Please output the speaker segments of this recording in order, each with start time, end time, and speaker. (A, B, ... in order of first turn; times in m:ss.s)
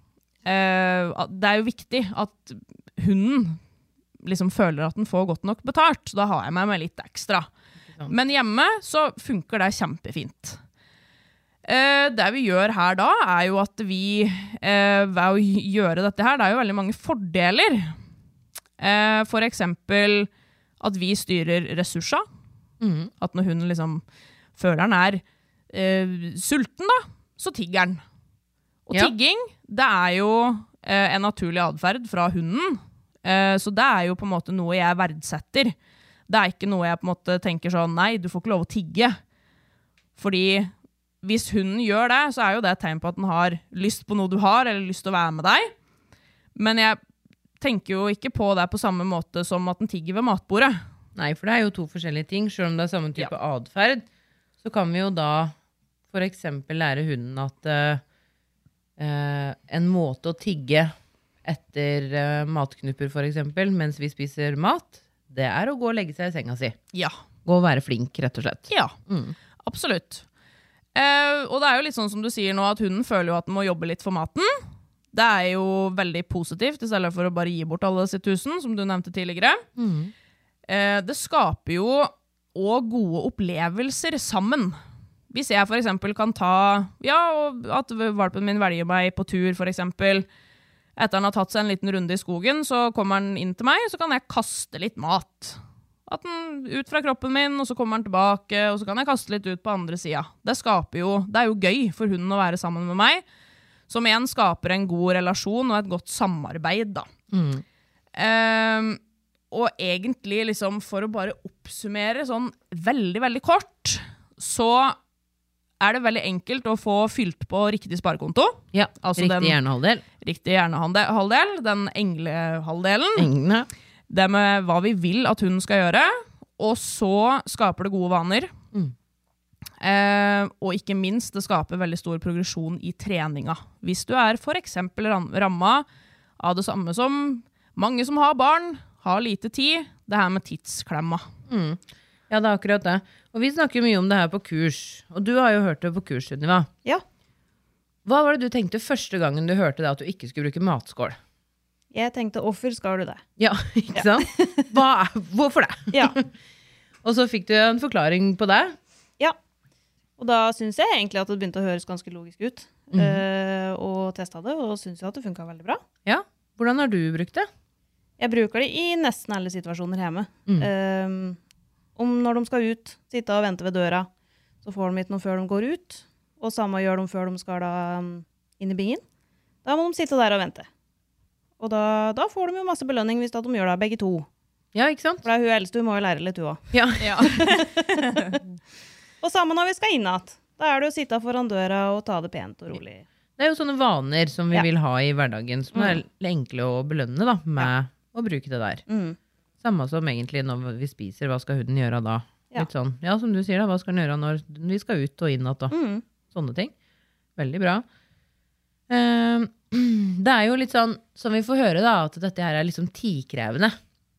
0:00.4-0:03.6 A
0:04.2-0:07.5 A
0:08.1-0:10.6 A
0:11.6-0:18.0 A
0:18.8-0:20.3 A
0:20.8-0:22.2 A
0:22.8-0:23.1 B
0:23.2-0:24.0 A
0:24.6-0:28.0 A
0:28.9-0:35.7 A
0:36.3-0:39.2 A
0:40.2-0:45.7 A
0:46.6-0:47.0 A
0:47.6-0:50.8 A
0:51.2-0:54.1 B
0:54.6-0:55.5 B
0:56.1-0:58.0 B
0:59.0-1:00.9 B
1:01.4-1:06.8 B
1:07.4-1:09.4 B
1:08.7-1:09.0 A
1:09.6-1:10.2 A
1:11.0-1:14.6 A
1:15.1-1:19.6 A
1:19.8-1:20.1 B
1:20.7-1:24.8 A
1:25.3-1:30.3 A
1:31.0-1:43.2 A
1:43.9-1:47.1 A
1:47.3-1:47.6 B
1:48.2-1:49.0 A
1:49.5-1:55.0 A
1:55.8-1:59.6 A
1:58.7-2:00.0 B
2:00.2-2:03.3 A
2:03.2-2:03.7 B
2:04.1-2:08.5 A
2:09.8-2:15.9 A
2:16.4-2:21.2 A
2:21.5-2:26.7 B
2:28.0-2:31.2 B
2:31.9-2:33.2 C
2:33.4-2:36.3 B
2:33.9-2:34.2 C
2:35.9-2:36.2 C
2:37.0-2:38.8 B
2:40.2-2:45.8 C
2:42.9-2:43.2 B
2:46.0-2:47.5 B
2:48.2-2:51.4 C
2:52.0-2:54.1 C
2:54.6-2:59.0 C
2:59.6-3:00.7 C
3:01.6-3:04.3 C
3:04.7-3:05.3 B
3:05.2-3:06.6 C
3:06.7-3:07.5 B
3:07.0-3:08.4 A
3:07.2-3:08.4 C
3:09.2-3:13.0 C
3:13.4-3:18.8 B
3:15.7-3:16.0 C
3:18.9-3:19.2 C
3:19.6-3:25.8 B
3:25.7-3:26.0 C
3:26.3-3:26.7 B
3:27.4-3:27.8 B
3:28.9-3:33.8 B